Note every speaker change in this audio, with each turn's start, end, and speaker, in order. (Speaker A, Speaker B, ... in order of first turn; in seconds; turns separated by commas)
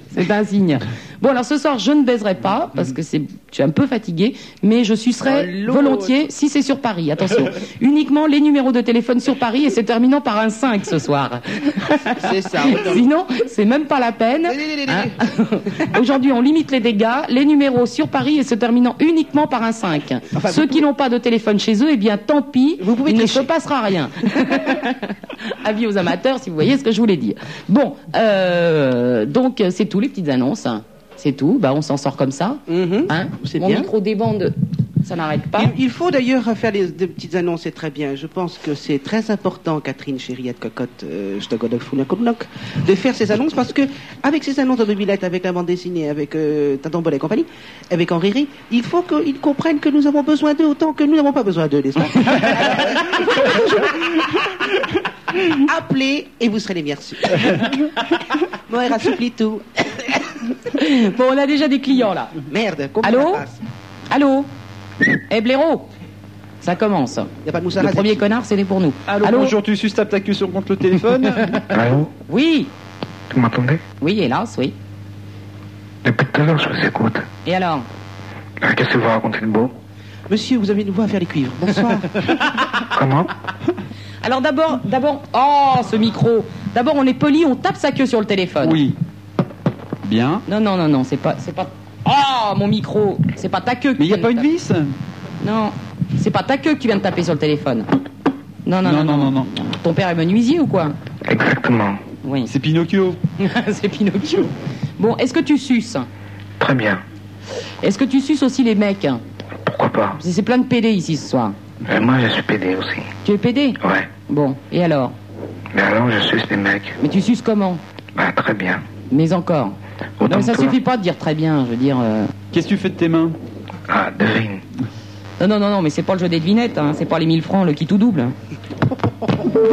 Speaker A: 0.1-35.7, Speaker B: 5.2-6.2, Speaker B: 12.1-13.1, Speaker B: 14.4-15.2, Speaker B: 20.3-20.8, Speaker B: 22.8-23.5, Speaker B: 32.7-33.9, Speaker B: 35.6-54.1, Speaker B: 55.5-57.7, Speaker B: 58.7-60.1, Speaker A: 60.7-62.3, Speaker B: 62.5-63.6, Speaker A: 63.0-63.4, Speaker A: 64.1-64.5, Speaker A: 65.3-65.9, Speaker A: 66.6-69.5, Speaker B: 67.4-68.2, Speaker C: 69.1-71.6, Speaker D: 71.7-72.1, Speaker A: 72.3-72.7, Speaker D: 73.3-73.8, Speaker A: 74.0-74.7, Speaker D: 76.0-77.2, Speaker A: 77.4-77.8, Speaker D: 78.6-79.7, Speaker B: 80.3-82.2, Speaker D: 82.9-83.3, Speaker A: 84.2-88.8, Speaker C: 88.6-89.0, Speaker C: 90.0-90.4, Speaker A: 90.5-94.5, Speaker C: 94.0-94.9, Speaker A: 95.4-97.9, Speaker A: 98.6-100.9, Speaker C: 98.8-99.5, Speaker D: 101.2-102.0, Speaker A: 102.2-102.5, Speaker C: 102.5-103.2, Speaker A: 103.4-106.1, Speaker D: 106.6-107.0, Speaker A: 107.8-109.2, Speaker D: 109.7-110.2, Speaker A: 110.2-111.6, Speaker D: 111.8-113.1, Speaker A: 113.2-115.1, Speaker D: 113.8-114.1, Speaker D: 115.7-117.0, Speaker A: 117.0-117.8, Speaker D: 118.2-118.8, Speaker A: 119.1-122.3, Speaker D: 120.2-120.8, Speaker C: 122.5-123.4, Speaker D: 123.9-124.6, Speaker A: 125.4-128.3